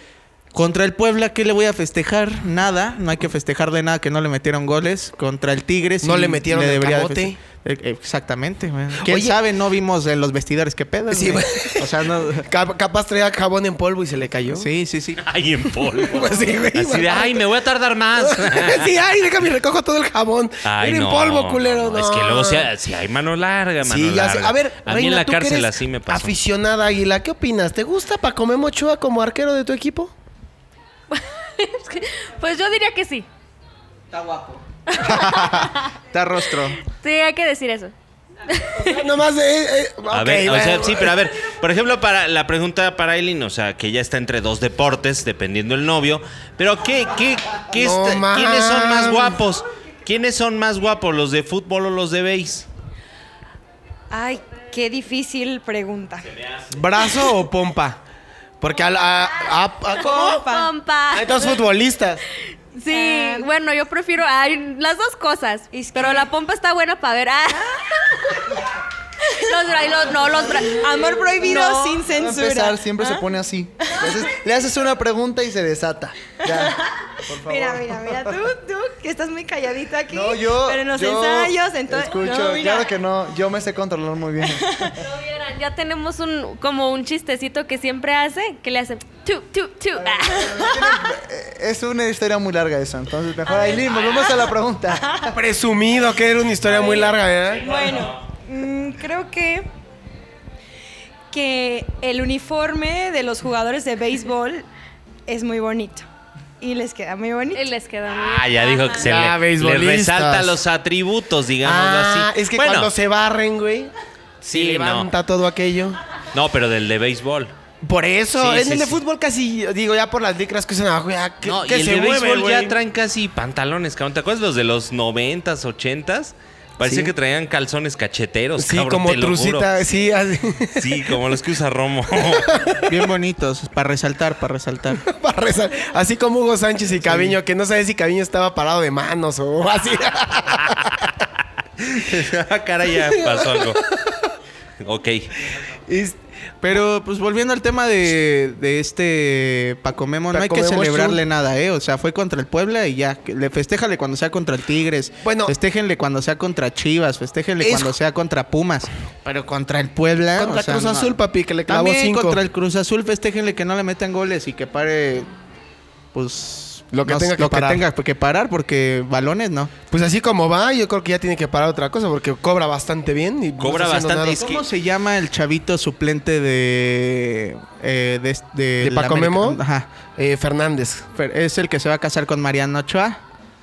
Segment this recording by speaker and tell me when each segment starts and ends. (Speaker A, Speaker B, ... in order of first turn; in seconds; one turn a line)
Speaker A: 0.5-12.5
Speaker B: 6.0-7.4
Speaker B: 9.0-9.3
Speaker B: 11.1-11.9
Speaker B: 12.4-14.7
Speaker A: 14.5-15.2
Speaker C: 15.2-18.9
Speaker B: 16.0-17.5
Speaker B: 18.1-22.7
Speaker C: 20.6-26.3
Speaker B: 23.8-30.1
Speaker D: 31.1-33.2
Speaker A: 34.1-36.8
Speaker D: 34.9-35.9
Speaker D: 36.8-37.9
Speaker D: 38.5-39.0
Speaker B: 38.8-41.2
Speaker C: 40.1-52.7
Speaker B: 47.7-49.4
Speaker E: 54.1-56.3
Speaker C: 56.2-56.7
Speaker B: 56.7-58.0
Speaker B: 58.6-60.4
Speaker E: 60.0-60.7
Speaker D: 60.0-61.6
Speaker B: 61.1-62.2
Speaker D: 62.8-68.4
Speaker E: 62.9-63.5
Speaker E: 65.7-66.3
Speaker D: 69.2-72.0
Speaker E: 70.6-73.2
Speaker F: 71.6-78.4
Speaker E: 76.5-76.8
Speaker E: 77.4-82.9
Speaker F: 80.1-85.0
Speaker E: 84.5-84.9
Speaker D: 85.0-91.0
Speaker F: 90.0-95.2
Speaker E: 93.5-95.2
Speaker B: 95.2-97.8
Speaker E: 96.7-99.7
Speaker C: 97.7-98.1
Speaker E: 101.3-104.7
Speaker E: 105.3-106.1
Speaker E: 106.6-107.7
Speaker D: 107.5-109.0
Speaker C: 108.1-112.9
Speaker B: 109.0-110.6
Speaker B: 111.6-116.0
Speaker C: 114.5-115.1
Speaker C: 116.3-117.5
Speaker B: 117.8-122.8
Speaker C: 118.3-119.0
Speaker C: 121.4-129.7
Speaker B: 126.8-127.1
Speaker B: 128.6-131.1
Speaker C: 130.8-132.6
Speaker B: 132.2-132.9
Speaker A: 132.9-135.0
Speaker B: 135.0-141.1
Speaker A: 137.0-137.4
Speaker C: 141.8-143.8
Speaker B: 142.9-144.1
Speaker C: 144.8-145.5
Speaker B: 145.9-146.2
Speaker A: 146.6-165.3
Speaker B: 150.3-151.2
Speaker B: 155.2-155.5
Speaker B: 157.6-157.9
Speaker B: 160.4-162.4
Speaker A: 166.1-169.7
Speaker B: 166.9-167.8
Speaker B: 169.9-174.5
Speaker C: 173.6-174.6
Speaker A: 174.4-179.8
Speaker B: 178.8-179.6
Speaker B: 180.2-181.0
Speaker A: 181.1-183.2